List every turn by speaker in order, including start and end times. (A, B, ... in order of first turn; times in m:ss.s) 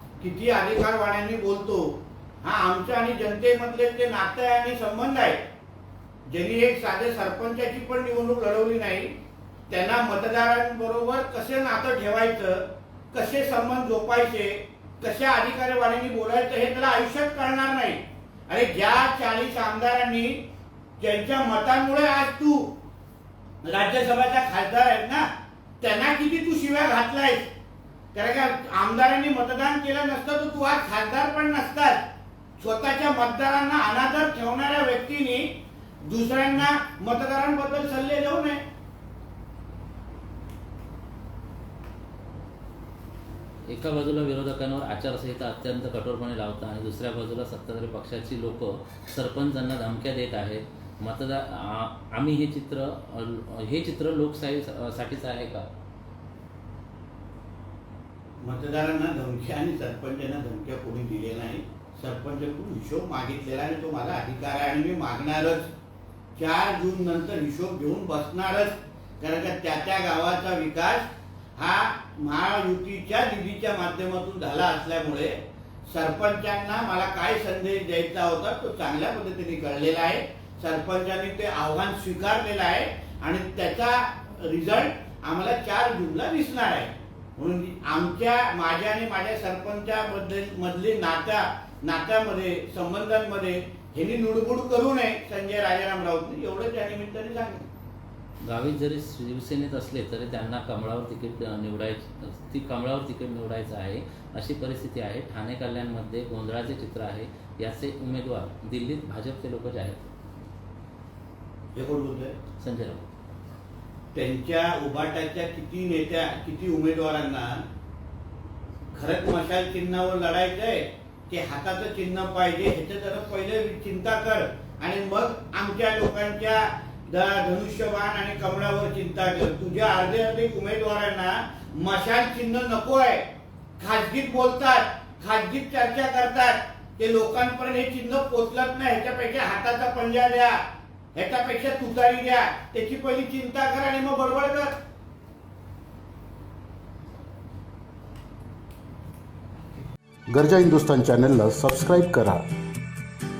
0:00.2-0:05.4 A
0:06.3-0:09.1 A
0:09.7-0:20.4 A
0:21.0-0:22.7 A
0:23.6-0:25.3 A
0:25.8-0:27.5 A
0:28.1-0:32.0 A
0:32.6-0:35.5 A
0:36.1-0:38.6 A
0:43.7-0:55.7 B
0:58.4-1:05.7 A
1:06.4-1:15.4 A
1:15.9-1:37.7 A
1:38.4-1:50.1 B
1:51.7-1:52.4 A
1:52.6-1:53.0 B
1:54.1-1:57.6 A
1:58.9-2:13.2 A
2:13.8-2:20.6 A
2:21.2-2:24.7 A
2:30.3-2:32.4 C